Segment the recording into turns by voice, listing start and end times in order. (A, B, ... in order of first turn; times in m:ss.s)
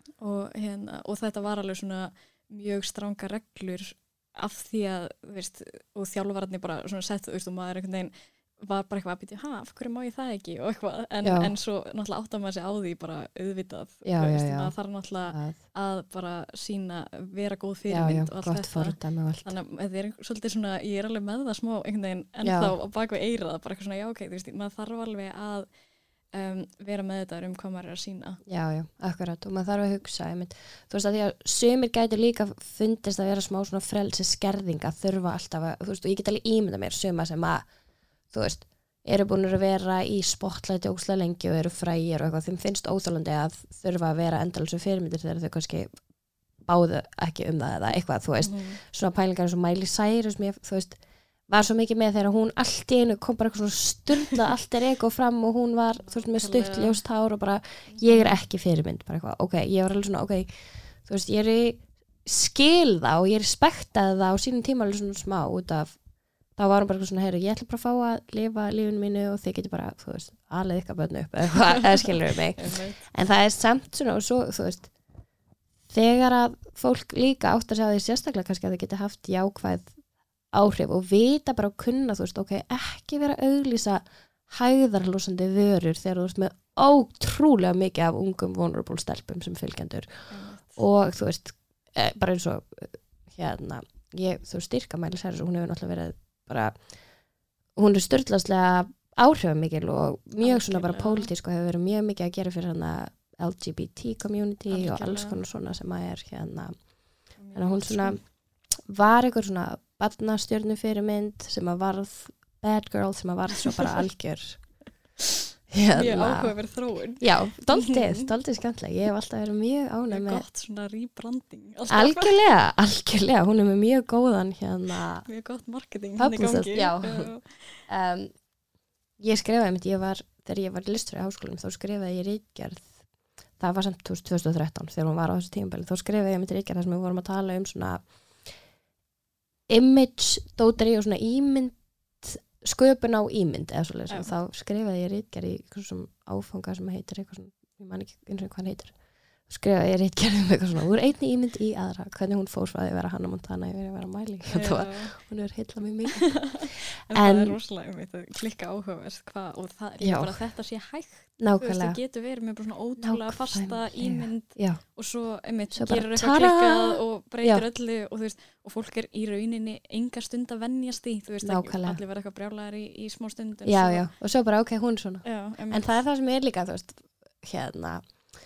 0:00.2-0:25.7 A
0:11.2-0:11.5 B
0:14.0-0:14.8 B
0:15.3-0:15.6 B
0:17.9-0:19.5 B
0:22.4-0:22.7 B
0:26.3-0:28.4 A
0:28.4-0:37.7 B
0:38.3-0:46.0 B
0:46.6-1:06.0 B
0:48.4-0:48.8 A
0:56.0-0:57.0 A
0:57.9-0:58.3 A
1:06.6-1:14.9 B
1:12.6-1:13.1 A
1:15.9-1:20.0 B
1:20.5-1:36.9 B
1:30.3-1:30.8 A
1:37.7-1:46.8 B
1:40.4-1:41.3 A
1:44.7-1:45.4 A
1:47.4-1:48.2 A
1:47.5-1:48.2 B
1:48.7-1:54.7 B
1:53.6-1:53.9 A
1:55.7-1:56.6 B
1:55.9-1:58.3 A
1:57.1-2:00.4 B
2:00.1-2:02.4 A
2:01.9-2:05.3 B
2:05.2-2:07.8 A
2:06.2-2:07.3 B
2:07.8-2:08.3 B
2:09.2-2:13.0 B
2:13.6-2:18.0 B
2:19.7-2:28.9 B
2:24.1-2:24.3 A
2:29.5-2:37.6 B
2:34.4-2:35.2 A
2:36.4-2:54.1 A
2:40.0-2:40.4 B
2:41.4-2:42.0 B
2:43.0-2:44.8 B
2:45.7-2:47.6 B
2:51.4-2:52.0 B
2:53.6-2:58.2 B
2:55.2-2:56.0 A